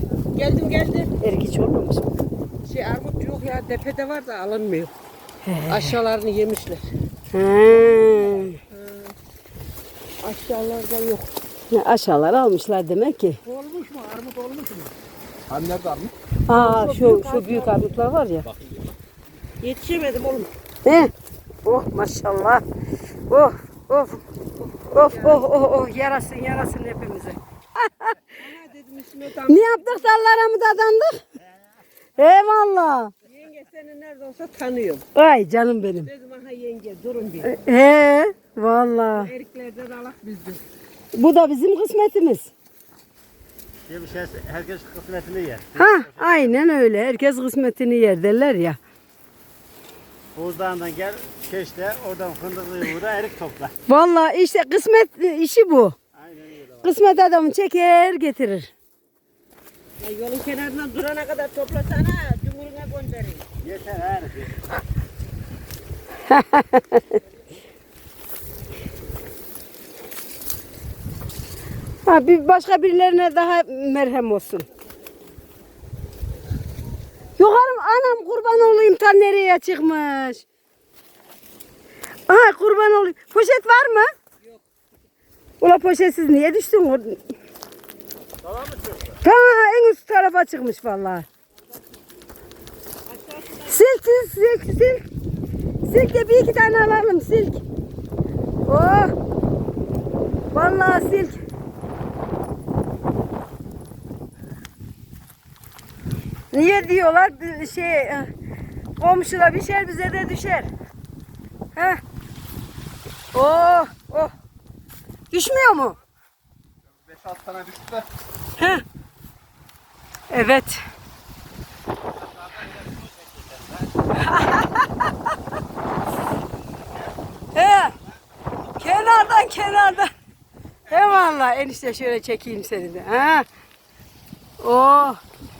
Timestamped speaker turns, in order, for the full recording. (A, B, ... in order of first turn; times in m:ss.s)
0:00.3-0:01.1 A
0:01.2-0:02.1 B
0:02.6-0:04.9 A
0:05.4-0:06.0 B
0:05.7-0:06.9 A
0:07.3-0:08.6 B
0:08.0-0:09.1 A
0:10.2-0:11.3 A
0:11.7-0:13.4 B
0:13.4-0:14.9 A
0:15.5-0:16.1 C
0:16.5-0:18.5 B
0:16.5-0:17.9 A
0:19.6-0:20.5 A
0:20.8-0:21.1 B
0:21.6-0:22.6 B
0:23.3-0:24.2 B
0:24.8-0:28.2 B
0:25.0-0:25.4 A
0:28.3-0:30.0 A
0:29.4-0:31.2 B
0:32.2-0:33.1 B
0:33.2-0:35.0 A
0:35.1-0:36.1 B
0:36.0-0:37.5 A
0:37.4-0:39.3 B
0:39.1-0:40.6 A
0:41.1-0:42.5 B
0:43.9-0:46.5 C
0:45.7-0:48.8 B
0:50.3-0:53.7 C
0:53.9-0:56.0 B
0:56.2-0:56.9 C
0:56.8-0:58.7 B
1:00.0-1:03.5 A
1:03.6-1:04.6 C
1:06.3-1:07.2 B
1:12.0-1:14.7 B
1:17.4-1:20.4 B
1:22.3-1:24.1 B
1:25.6-1:27.2 B
1:28.5-1:28.9 C
1:29.2-1:31.2 B
1:33.0-1:33.8 A
1:33.6-1:35.0 B
1:35.8-1:37.6 B
1:38.6-1:39.1 B
1:40.5-1:41.4 B
1:46.5-1:48.3 B
1:49.0-1:50.7 B
1:51.7-1:52.0 B
1:53.3-1:54.3 B
1:55.3-1:56.0 B
1:58.6-1:58.8 B
2:00.3-2:00.8 B
2:04.1-2:05.1 B
2:07.5-2:07.9 B
2:08.7-2:10.1 B
2:10.9-2:13.4 B
2:14.6-2:15.2 B